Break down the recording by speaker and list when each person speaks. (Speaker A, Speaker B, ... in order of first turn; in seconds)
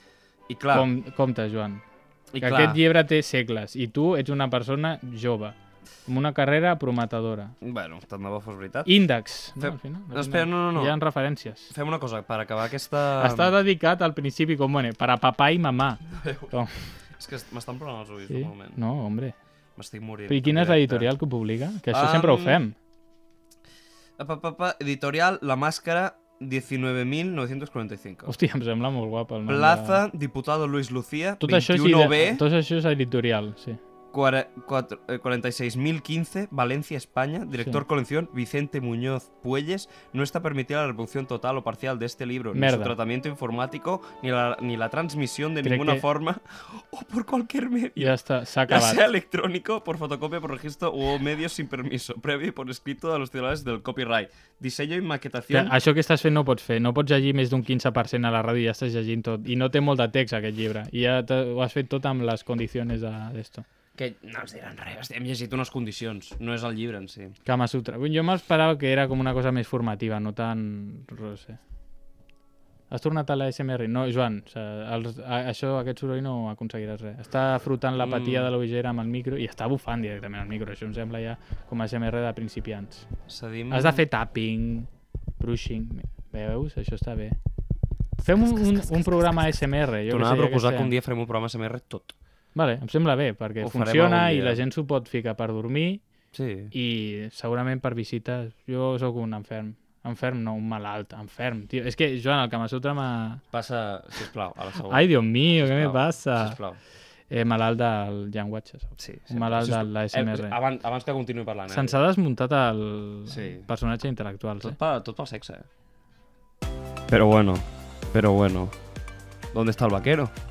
Speaker A: 0.5-0.9, 2.3-2.8, 7.6-8.9, 9.6-10.9, 11.7-13.5, 16.1-16.5, 17.1-18.8, 19.8-21.1, 21.9-22.6, 24.2-28.3, 29.5-32.4, 34.1-48.1, 48.7-55.7, 64.0-67.4, 78.0-78.5, 83.3-84.0, 90.1-92.2, 93.6-94.6, 96.3-96.7, 103.5-106.8, 109.0-112.0, 113.3-113.7, 114.6-115.7, 117.1-118.8, 119.5-120.3
Speaker B: 0.7-1.8, 2.4-7.5, 8.8-11.7, 13.2-16.9, 18.3-19.4, 20.3-22.8, 28.2-30.0, 31.4-33.8, 42.5-42.9, 45.6-46.0, 48.0-49.0, 55.5-63.6, 67.4-71.6, 72.9-83.1, 83.7-87.4, 88.2-90.9, 92.5-96.0, 96.7-103.4, 104.9-106.6, 107.3-110.6, 111.7-114.8